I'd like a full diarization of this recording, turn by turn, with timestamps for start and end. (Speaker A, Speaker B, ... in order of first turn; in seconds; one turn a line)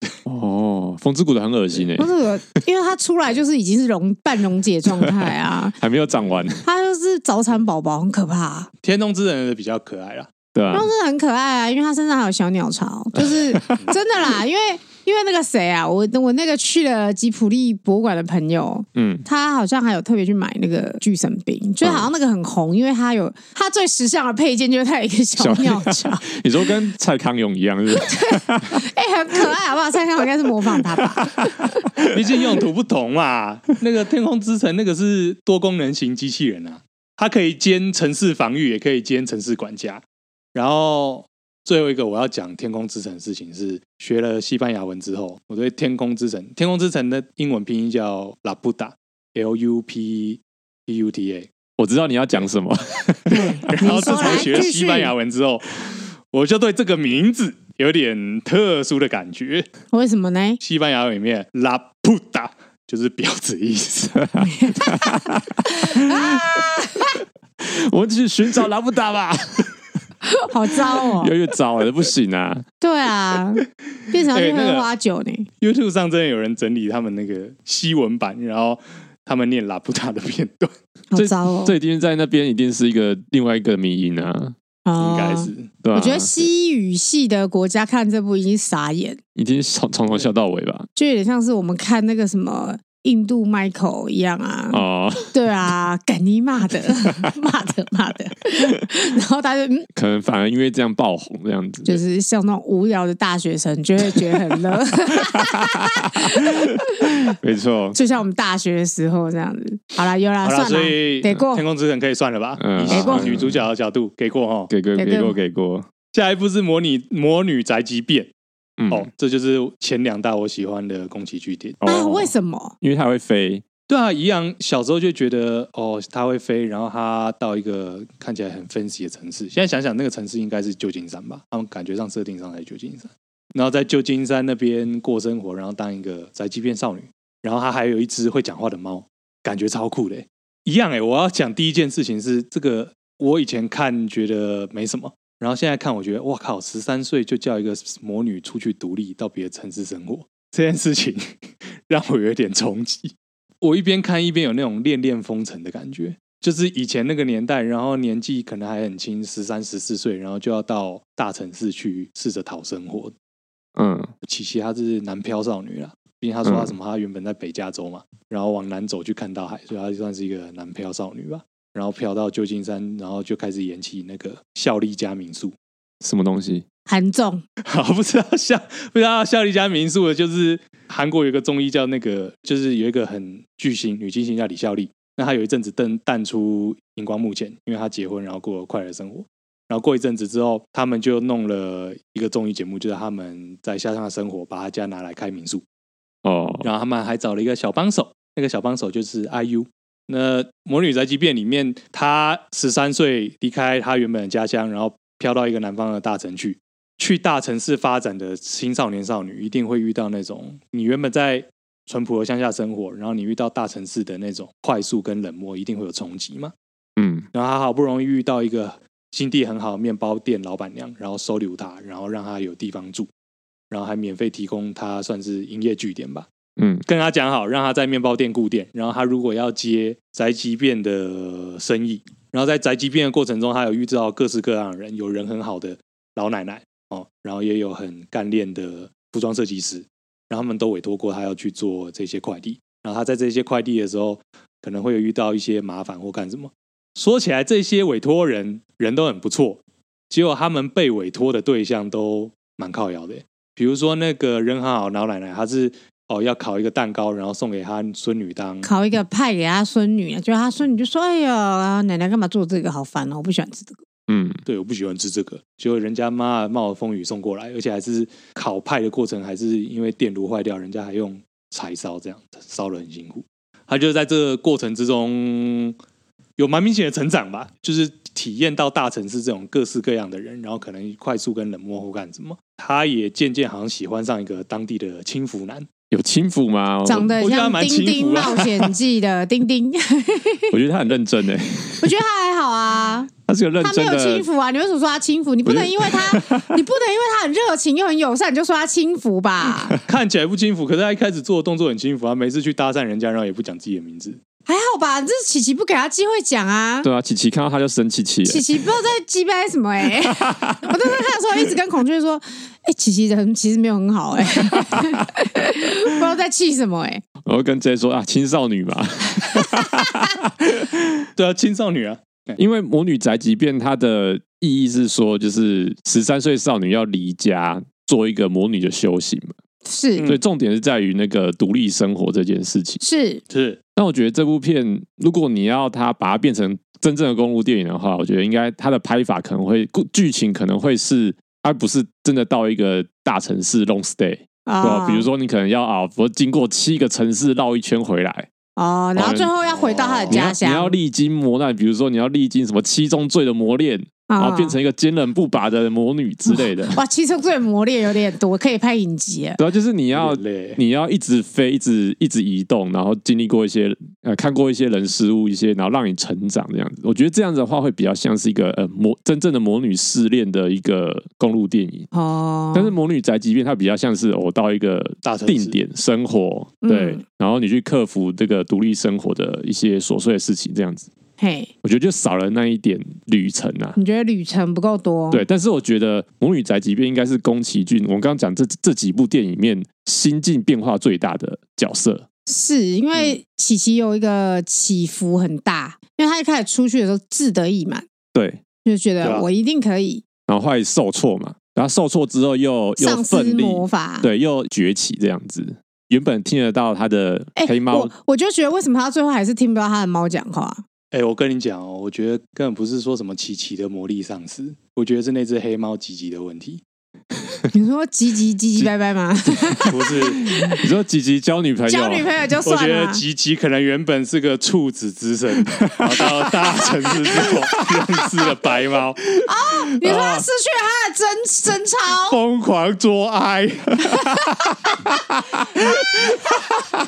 Speaker A: 0.3-2.1
Speaker B: 2.0-5.8
Speaker A: 5.8-6.6
Speaker B: 6.6-8.7
Speaker C: 8.8-10.3
Speaker A: 10.5-10.9
Speaker B: 10.7-26.4
Speaker A: 13.2-13.8
Speaker A: 19.0-19.2
Speaker A: 21.8-22.1
Speaker A: 25.4-28.8
Speaker B: 28.0-31.8
Speaker A: 30.8-32.1
Speaker C: 32.0-51.5
Speaker A: 51.8-53.6
Speaker C: 53.3-59.7
Speaker B: 53.3-55.1
Speaker B: 59.9-60.6
Speaker C: 60.6-64.3
Speaker A: 64.3-66.7
Speaker B: 64.4-65.2
Speaker B: 65.8-67.2
Speaker A: 67.6-69.7
Speaker B: 70.3-71.3
Speaker A: 70.7-72.7
Speaker B: 72.8-75.5
Speaker C: 74.3-74.9
Speaker C: 75.6-80.7
Speaker B: 81.1-81.8
Speaker A: 81.2-84.6
Speaker B: 84.8-89.2
Speaker C: 85.0-85.7
Speaker A: 85.8-86.5
Speaker A: 89.3-90.9
Speaker B: 91.0-99.9
Speaker A: 94.7-95.3
Speaker A: 100.0-102.0
Speaker B: 101.8-107.3
Speaker A: 104.1-104.5
Speaker A: 105.2-108.0
Speaker B: 107.9-111.7
Speaker C: 110.4-114.7
Speaker A: 112.6-113.6
Speaker B: 112.9-113.3
Speaker A: 114.7-115.9
Speaker B: 115.0-115.4
Speaker C: 116.1-118.3
Speaker A: 118.8-119.1
Speaker C: 118.9-121.8
Speaker A: 121.8-123.6
Speaker B: 121.8-122.8
Speaker C: 123.9-163.1
Speaker A: 163.8-164.1
Speaker C: 164.2-175.6
Speaker A: 166.4-166.7
Speaker A: 176.0-176.7
Speaker B: 176.9-177.4
Speaker C: 177.7-195.6
Speaker A: 196.2-196.7
Speaker C: 196.6-216.5
Speaker A: 217.0-217.3
Speaker C: 217.3-223.1
Speaker C: 223.7-226.3
Speaker A: 226.6-226.8
Speaker C: 226.9-258.7
Speaker B: 258.6-263.8
Speaker A: 264.1-264.4
Speaker C: 264.5-275.8
Speaker C: 276.4-285.7
Speaker A: 285.9-287.2
Speaker B: 286.9-290.6
Speaker C: 287.2-288.7
Speaker A: 290.5-291.9
Speaker B: 291.8-299.8
Speaker A: 293.3-294.3
Speaker A: 295.4-296.6
Speaker C: 299.9-304.2
Speaker B: 304.5-306.9
Speaker A: 306.8-308.4
Speaker B: 308.3-317.0
Speaker A: 310.0-310.7
Speaker A: 314.4-315.0
Speaker A: 317.3-321.0
Speaker C: 321.2-322.4
Speaker A: 322.4-329.4
Speaker B: 329.6-330.1
Speaker A: 330.1-332.8
Speaker B: 332.8-333.2
Speaker C: 333.3-333.6
Speaker A: 333.8-348.3
Speaker B: 344.5-345.1
Speaker B: 348.6-350.8
Speaker A: 349.0-349.3
Speaker C: 349.5-350.2
Speaker A: 350.1-356.8
Speaker B: 354.1-354.6
Speaker B: 356.7-359.4
Speaker A: 359.4-371.9
Speaker C: 359.9-360.6
Speaker B: 371.9-372.7
Speaker A: 372.5-380.9
Speaker C: 375.0-375.6
Speaker B: 376.6-377.0
Speaker B: 381.2-381.5
Speaker A: 381.6-383.8
Speaker B: 383.8-385.2
Speaker A: 385.1-392.1
Speaker B: 392.3-397.9
Speaker A: 398.1-398.4
Speaker B: 398.6-400.1
Speaker C: 399.0-399.3
Speaker A: 400.3-407.9
Speaker B: 402.8-404.1
Speaker B: 407.4-410.6
Speaker C: 410.9-416.6
Speaker B: 417.5-420.6
Speaker A: 419.3-419.7
Speaker C: 419.6-420.3
Speaker A: 420.4-422.1
Speaker B: 421.7-423.0
Speaker C: 422.4-429.1
Speaker A: 425.6-425.9
Speaker A: 427.2-427.9
Speaker B: 429.2-432.2
Speaker A: 429.8-430.3
Speaker C: 432.1-434.1
Speaker A: 435.4-435.7
Speaker C: 435.7-436.2